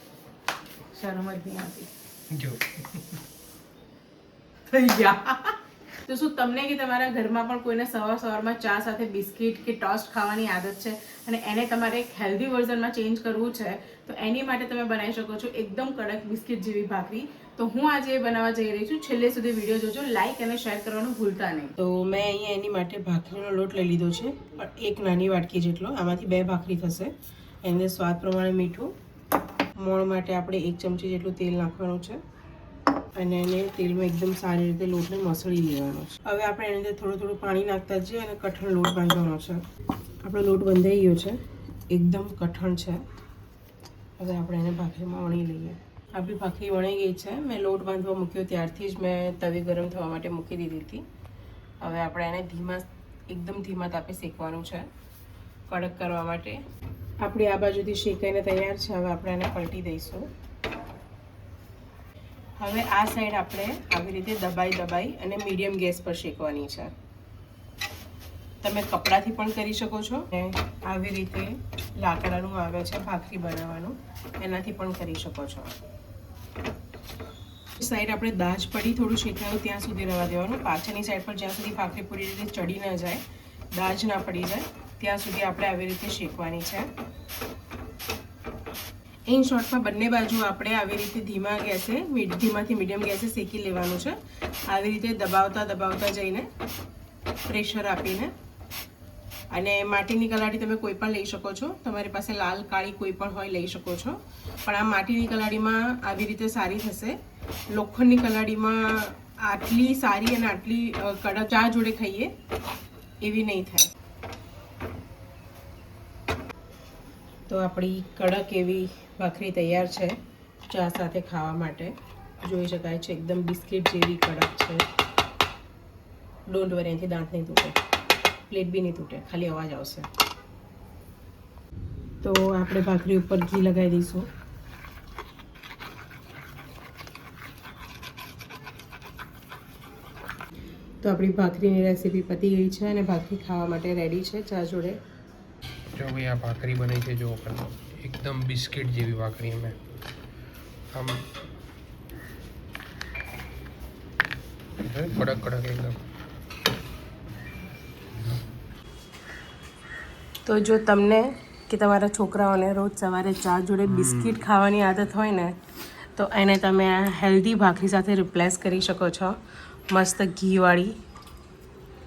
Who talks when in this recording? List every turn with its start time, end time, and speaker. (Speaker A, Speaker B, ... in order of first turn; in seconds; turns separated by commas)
Speaker A: 0.9-1.9, Speaker B: 2.3-2.8, Speaker A: 4.7-21.7, Speaker C: 21.8-27.1, Speaker C: 27.6-28.9, Speaker C: 29.8-32.2, Speaker C: 33.2-39.6, Speaker C: 40.2-43.0, Speaker C: 44.2-51.0, Speaker C: 51.8-54.9, Speaker C: 55.7-56.6, Speaker C: 57.2-60.2, Speaker C: 62.6-66.9, Speaker C: 68.6-75.8, Speaker C: 77.8-83.2, Speaker C: 83.7-86.9, Speaker C: 89.3-94.2, Speaker C: 94.7-96.5, Speaker C: 97.5-98.3, Speaker C: 99.5-107.2, Speaker C: 107.7-112.3, Speaker C: 113.2-113.9, Speaker C: 117.5-120.2, Speaker C: 120.7-124.8, Speaker C: 126.5-127.8, Speaker C: 128.5-130.1, Speaker C: 132.2-134.3, Speaker C: 141.0-145.0, Speaker B: 145.9-149.8, Speaker B: 150.9-151.3, Speaker B: 154.8-156.0, Speaker C: 160.4-165.6, Speaker B: 163.8-164.4, Speaker C: 166.2-169.4, Speaker C: 169.9-171.0